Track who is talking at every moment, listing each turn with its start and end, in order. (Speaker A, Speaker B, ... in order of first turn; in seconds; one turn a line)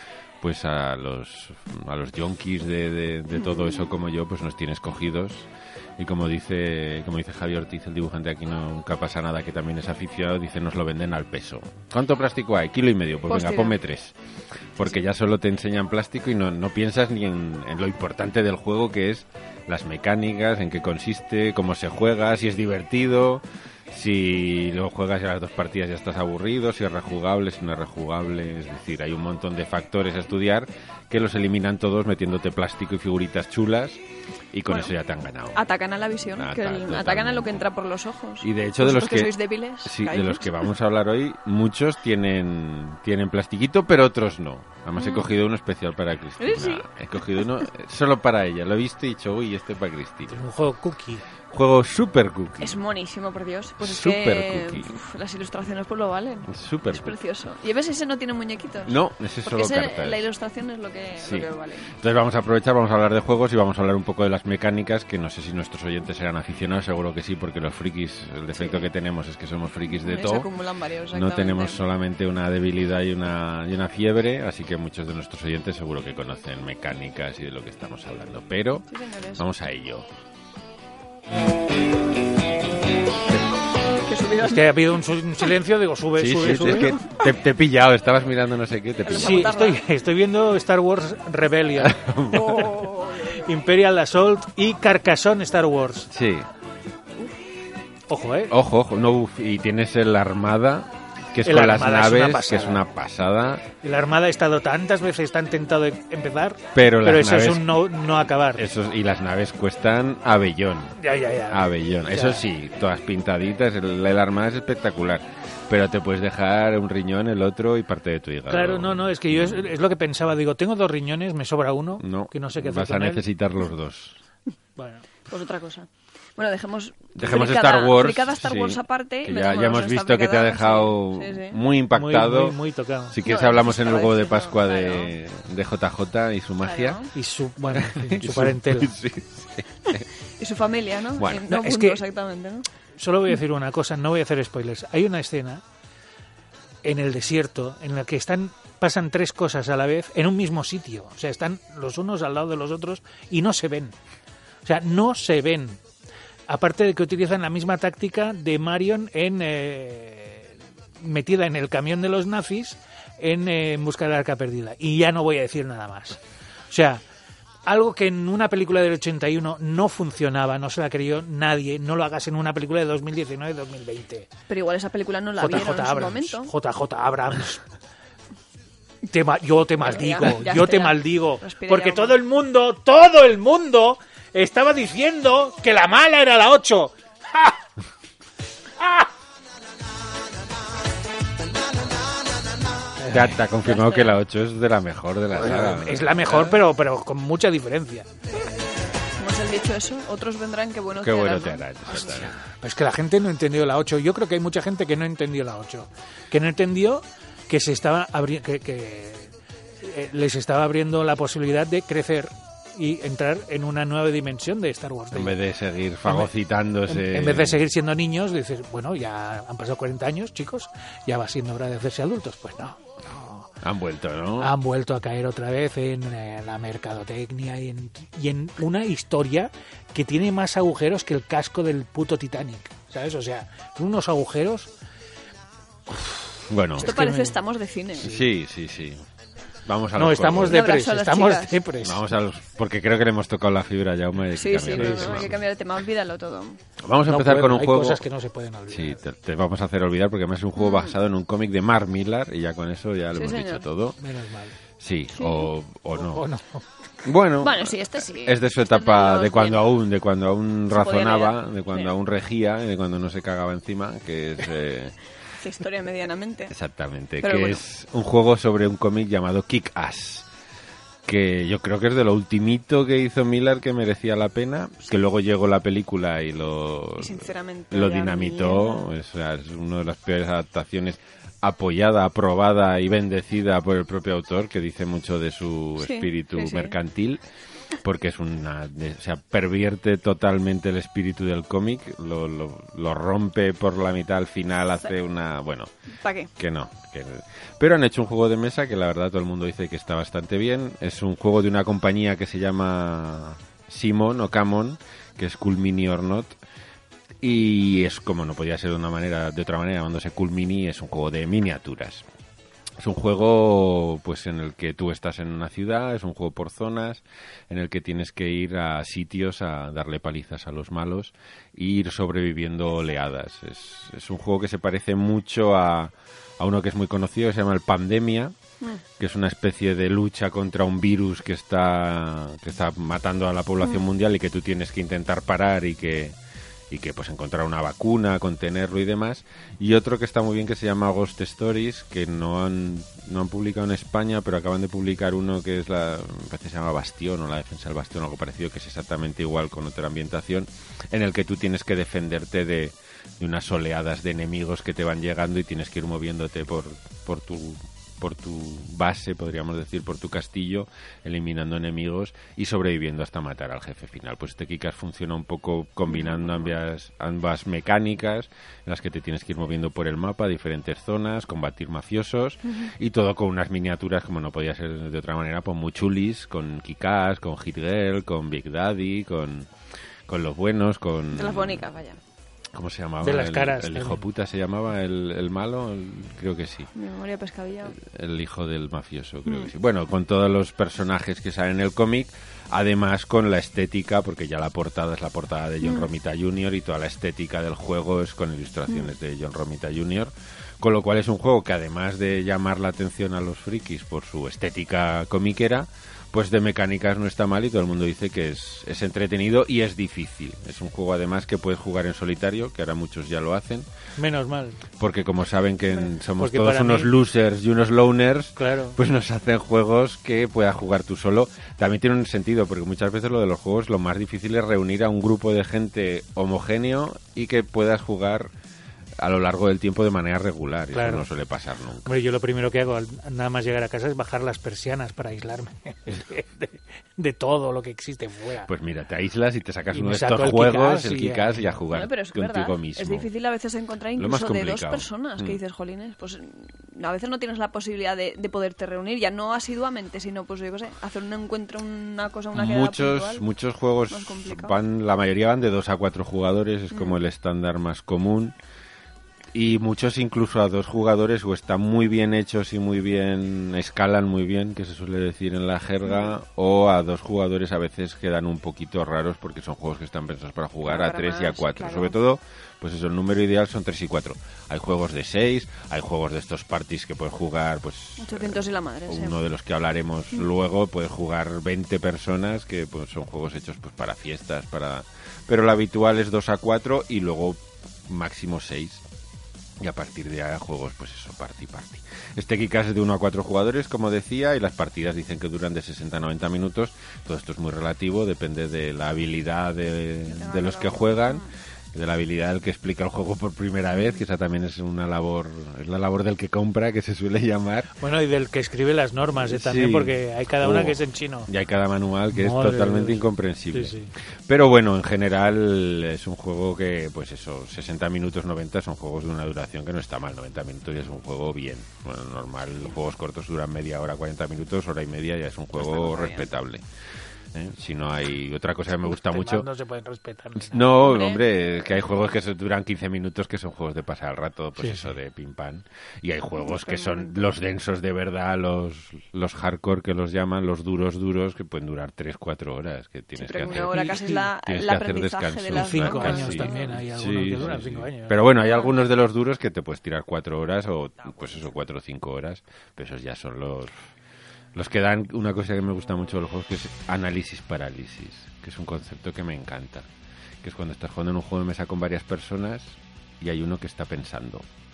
Speaker A: 0.4-14.2
Speaker B: 3.4-3.9
Speaker B: 13.3-13.8
Speaker A: 14.8-34.0
Speaker A: 34.5-35.6
Speaker B: 34.7-34.9
Speaker B: 35.5-40.7
Speaker A: 36.2-37.7
Speaker A: 38.4-39.3
Speaker A: 39.8-50.4
Speaker B: 45.0-45.3
Speaker B: 46.4-46.9
Speaker C: 50.3-51.2
Speaker A: 51.5-52.8
Speaker B: 52.6-61.9
Speaker A: 53.8-55.0
Speaker A: 56.5-57.2
Speaker A: 58.8-60.2
Speaker A: 61.2-70.5
Speaker B: 68.5-68.9
Speaker B: 69.9-71.8
Speaker A: 71.1-80.1
Speaker B: 78.9-79.4
Speaker B: 84.0-84.7
Speaker C: 84.4-87.0
Speaker A: 86.2-89.6
Speaker B: 86.7-87.2
Speaker B: 89.0-89.8
Speaker C: 89.2-92.0
Speaker A: 91.8-92.8
Speaker B: 92.3-93.4
Speaker C: 93.3-96.1
Speaker A: 96.1-96.5
Speaker C: 98.1-98.5
Speaker A: 98.5-103.6
Speaker C: 101.4-102.8
Speaker C: 103.8-108.6
Speaker A: 106.7-119.7
Speaker C: 111.0-112.4
Speaker C: 118.5-123.2
Speaker A: 122.0-124.2
Speaker C: 124.8-125.0
Speaker B: 125.3-131.6
Speaker A: 127.2-132.6
Speaker C: 131.9-133.2
Speaker A: 133.1-137.1
Speaker B: 133.2-135.1
Speaker B: 136.6-137.1
Speaker C: 137.1-138.9
Speaker A: 137.7-140.1
Speaker B: 140.4-142.7
Speaker A: 141.2-141.5
Speaker C: 141.5-142.0
Speaker C: 143.0-145.6
Speaker C: 146.8-153.9
Speaker C: 154.6-155.8
Speaker C: 156.5-166.2
Speaker C: 166.7-167.0
Speaker C: 167.7-174.3
Speaker B: 174.5-176.5
Speaker C: 175.4-177.6
Speaker C: 179.1-187.5
Speaker B: 179.8-182.2
Speaker C: 193.0-193.4
Speaker A: 193.1-196.6
Speaker B: 193.6-194.2
Speaker C: 195.3-198.1
Speaker B: 199.2-201.7
Speaker A: 200.9-202.3
Speaker C: 201.9-215.4
Speaker A: 215.1-217.6
Speaker C: 216.0-216.3
Speaker C: 216.8-223.5
Speaker A: 223.6-224.5
Speaker C: 224.4-234.7
Speaker C: 235.9-236.2
Speaker A: 236.5-236.9
Speaker C: 236.8-237.4
Speaker B: 236.8-238.2
Speaker A: 238.0-239.0
Speaker A: 239.7-240.6
Speaker C: 239.9-242.0
Speaker B: 240.3-241.6
Speaker A: 241.8-245.4
Speaker B: 244.3-246.6
Speaker C: 244.7-245.3
Speaker A: 246.8-248.0
Speaker C: 247.1-249.0
Speaker A: 248.7-254.0
Speaker B: 250.6-250.9
Speaker B: 253.1-253.7
Speaker C: 254.0-254.5
Speaker A: 254.8-256.2
Speaker B: 255.1-255.5
Speaker C: 256.0-256.6
Speaker A: 257.0-264.9
Speaker B: 257.4-259.7
Speaker B: 260.7-261.9
Speaker B: 265.4-266.5
Speaker A: 266.5-270.3
Speaker B: 267.2-267.6
Speaker A: 271.1-287.2
Speaker B: 277.0-278.9
Speaker B: 285.8-286.8
Speaker A: 287.8-295.7
Speaker B: 296.0-296.3
Speaker A: 296.4-306.4
Speaker A: 307.2-312.0
Speaker A: 312.8-328.3
Speaker A: 329.0-336.1
Speaker B: 333.6-333.9
Speaker A: 336.7-379.5
Speaker B: 365.9-366.5
Speaker A: 380.1-381.7
Speaker B: 381.1-382.0
Speaker A: 382.5-386.7
Speaker C: 383.0-384.0
Speaker B: 386.7-387.8
Speaker A: 387.7-413.7
Speaker B: 389.2-389.5
Speaker B: 395.6-395.9
Speaker C: 414.0-414.6
Speaker A: 414.8-428.3
Speaker C: 416.2-416.9
Speaker C: 418.4-418.8
Speaker A: 429.0-431.9
Speaker C: 430.7-431.1
Speaker C: 431.8-438.5
Speaker A: 438.4-443.1
Speaker C: 439.7-441.6
Speaker B: 441.7-453.2
Speaker A: 444.0-445.4
Speaker A: 452.3-458.4
Speaker B: 453.9-454.6
Speaker B: 456.7-457.0
Speaker A: 459.3-488.8
Speaker B: 465.9-466.1
Speaker B: 470.6-472.0
Speaker B: 478.0-479.2
Speaker A: 489.6-507.7
Speaker B: 500.1-501.3
Speaker C: 507.8-511.3
Speaker A: 509.2-526.6
Speaker C: 512.1-513.9
Speaker B: 525.6-526.3
Speaker A: 527.3-529.5
Speaker C: 528.8-530.7
Speaker A: 530.4-553.8
Speaker B: 530.8-531.2
Speaker C: 534.6-534.9
Speaker B: 536.4-537.1
Speaker B: 543.2-546.7
Speaker C: 543.6-544.2
Speaker C: 545.5-548.2
Speaker B: 548.4-548.8
Speaker A: 554.5-559.9
Speaker A: 560.4-564.5